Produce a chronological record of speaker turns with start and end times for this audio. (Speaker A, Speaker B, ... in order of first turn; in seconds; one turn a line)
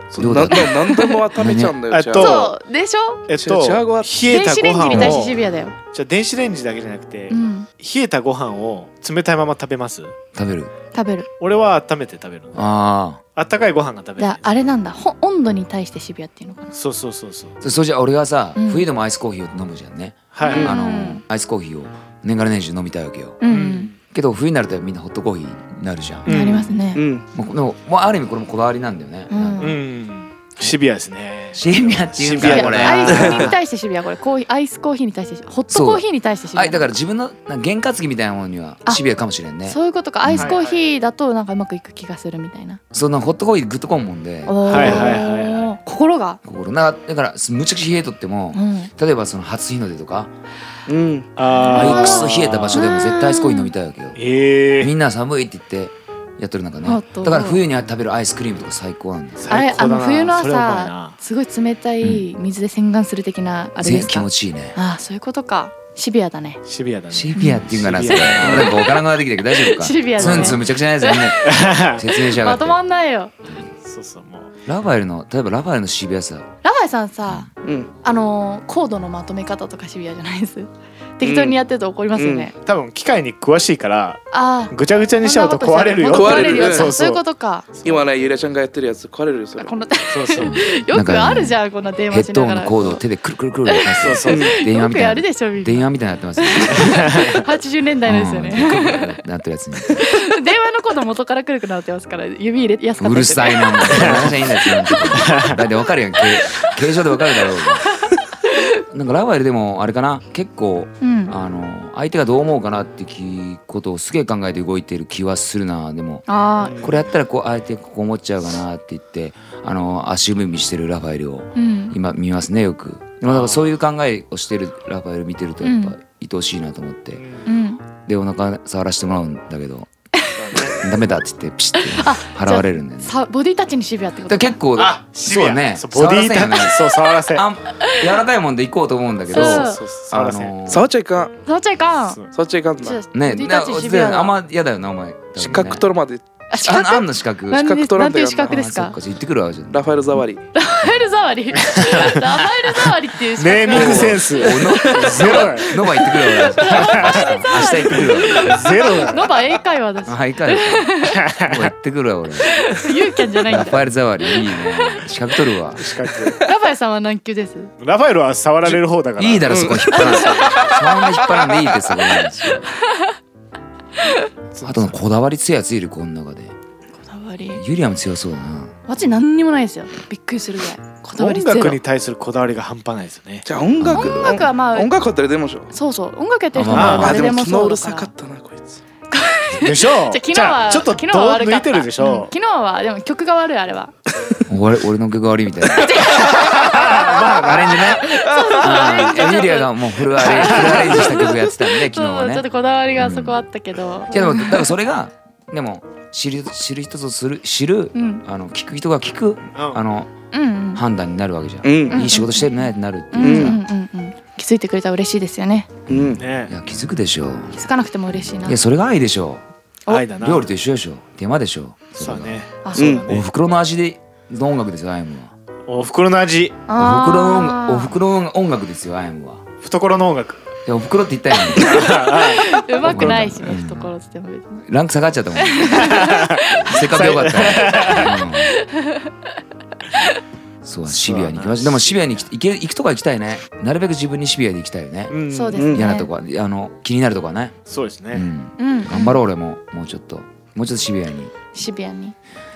Speaker A: 0.1-2.5
Speaker B: 0.2-0.8
Speaker C: 0.6-1.2
Speaker B: 1.3-1.8
Speaker D: 1.9-2.5
Speaker C: 2.1-3.2
Speaker D: 3.3-5.4
Speaker A: 3.4-4.2
Speaker C: 4.2-5.8
Speaker B: 4.9-5.2
Speaker D: 5.9-10.1
Speaker C: 7.3-7.7
Speaker B: 10.3-10.7
Speaker C: 10.9-11.3
Speaker D: 11.4-12.6
Speaker B: 12.5-13.2
Speaker D: 13.3-14.4
Speaker C: 14.2-16.7
Speaker D: 16.7-17.6
Speaker B: 17.6-23.4
Speaker C: 18.6-18.9
Speaker D: 20.3-20.7
Speaker C: 20.4-21.2
Speaker C: 23.4-23.9
Speaker D: 23.5-23.9
Speaker B: 24.1-26.6
Speaker D: 26.2-26.8
Speaker C: 26.2-27.0
Speaker A: 26.9-27.2
Speaker B: 27.3-29.8
Speaker C: 29.3-29.8
Speaker D: 29.6-33.6
Speaker B: 31.6-33.5
Speaker C: 32.4-36.9
Speaker A: 33.0-33.5
Speaker B: 35.7-40.5
Speaker C: 39.6-42.8
Speaker D: 40.3-40.8
Speaker B: 42.9-45.2
Speaker C: 44.5-46.4
Speaker D: 44.7-45.7
Speaker B: 46.4-50.3
Speaker C: 48.5-48.9
Speaker A: 50.9-51.3
Speaker D: 51.4-52.8
Speaker C: 51.7-53.7
Speaker B: 51.7-54.2
Speaker D: 54.1-54.9
Speaker B: 54.8-59.6
Speaker C: 56.8-57.6
Speaker D: 59.4-61.1
Speaker C: 59.5-66.6
Speaker B: 63.8-64.7
Speaker D: 66.6-68.8
Speaker B: 67.1-72.8
Speaker C: 67.3-73.3
Speaker D: 70.2-70.6
Speaker D: 71.4-72.0
Speaker D: 73.8-74.5
Speaker B: 74.7-76.5
Speaker C: 76.6-77.5
Speaker A: 77.6-77.9
Speaker C: 78.0-82.5
Speaker A: 81.2-81.6
Speaker A: 82.2-82.5
Speaker D: 82.6-87.2
Speaker C: 84.3-87.7
Speaker A: 86.1-87.0
Speaker D: 87.7-88.0
Speaker A: 87.8-89.7
Speaker C: 89.6-93.0
Speaker D: 90.1-90.8
Speaker B: 90.9-91.6
Speaker B: 92.1-97.4
Speaker C: 93.7-99.1
Speaker D: 94.0-94.5
Speaker A: 94.3-94.5
Speaker D: 96.8-97.4
Speaker B: 98.0-100.1
Speaker C: 99.9-105.5
Speaker B: 103.0-107.9
Speaker D: 104.0-104.3
Speaker D: 105.1-105.6
Speaker C: 106.4-106.7
Speaker C: 108.0-108.7
Speaker B: 108.9-116.3
Speaker C: 111.0-111.3
Speaker C: 116.3-116.9
Speaker D: 116.6-117.0
Speaker B: 116.8-127.2
Speaker C: 121.5-122.0
Speaker D: 123.3-123.7
Speaker C: 125.6-126.0
Speaker D: 127.1-127.5
Speaker C: 127.5-127.8
Speaker B: 128.0-129.9
Speaker D: 130.3-130.8
Speaker B: 130.8-133.1
Speaker C: 131.8-134.6
Speaker B: 134.3-140.8
Speaker D: 134.7-137.4
Speaker C: 137.8-138.1
Speaker C: 139.3-139.8
Speaker A: 139.5-140.0
Speaker D: 139.5-140.5
Speaker A: 140.7-141.3
Speaker C: 141.4-142.2
Speaker A: 142.3-143.0
Speaker C: 142.8-144.4
Speaker B: 143.1-145.8
Speaker D: 145.4-145.7
Speaker A: 145.4-146.2
Speaker C: 146.5-148.9
Speaker B: 146.5-147.7
Speaker A: 147.6-148.5
Speaker B: 148.4-149.9
Speaker A: 149.7-150.4
Speaker C: 150.5-161.2
Speaker D: 151.7-152.2
Speaker B: 151.9-152.1
Speaker D: 153.4-155.8
Speaker B: 153.7-158.9
Speaker A: 154.7-155.4
Speaker D: 156.7-157.3
Speaker D: 157.9-159.3
Speaker B: 160.1-162.9
Speaker D: 161.1-161.7
Speaker C: 162.4-165.0
Speaker B: 163.4-165.9
Speaker D: 165.7-166.4
Speaker C: 166.4-167.7
Speaker D: 167.8-170.2
Speaker B: 168.6-172.7
Speaker A: 169.5-171.7
Speaker C: 169.9-170.6
Speaker C: 172.7-173.1
Speaker D: 174.5-174.9
Speaker B: 174.6-176.5
Speaker C: 177.0-177.6
Speaker B: 177.5-178.7
Speaker C: 178.9-181.8
Speaker D: 181.2-183.4
Speaker A: 183.4-185.7
Speaker B: 183.8-184.4
Speaker C: 183.9-184.9
Speaker C: 185.7-188.1
Speaker B: 186.5-187.2
Speaker A: 186.7-188.8
Speaker D: 186.7-187.2
Speaker C: 189.1-193.9
Speaker D: 189.6-192.3
Speaker B: 194.4-203.4
Speaker C: 195.8-197.1
Speaker D: 196.3-198.0
Speaker C: 197.6-204.7
Speaker D: 200.3-201.1
Speaker B: 204.1-210.1
Speaker C: 207.9-208.2
Speaker D: 209.5-209.8
Speaker C: 210.3-210.8
Speaker B: 210.7-213.6
Speaker A: 211.6-212.1
Speaker C: 211.9-212.5
Speaker C: 213.1-215.7
Speaker A: 213.2-213.6
Speaker B: 215.9-217.5
Speaker A: 215.9-216.2
Speaker D: 216.2-216.5
Speaker C: 217.5-218.6
Speaker B: 218.4-219.4
Speaker D: 219.9-220.5
Speaker B: 220.2-222.4
Speaker D: 222.0-223.2
Speaker C: 222.6-223.0
Speaker A: 222.8-223.0
Speaker B: 223.1-225.3
Speaker D: 225.7-226.6
Speaker C: 226.7-227.9
Speaker B: 226.7-229.4
Speaker D: 229.6-230.4
Speaker B: 230.7-232.3
Speaker C: 231.5-234.7
Speaker D: 231.6-233.5
Speaker B: 232.8-233.9
Speaker B: 234.7-238.5
Speaker C: 235.3-239.1
Speaker D: 235.7-238.1
Speaker B: 240.6-247.6
Speaker D: 240.9-242.3
Speaker D: 245.1-245.7
Speaker C: 245.3-246.1
Speaker A: 245.6-245.8
Speaker D: 247.7-248.3
Speaker B: 248.1-251.3
Speaker C: 248.6-249.2
Speaker C: 251.5-252.1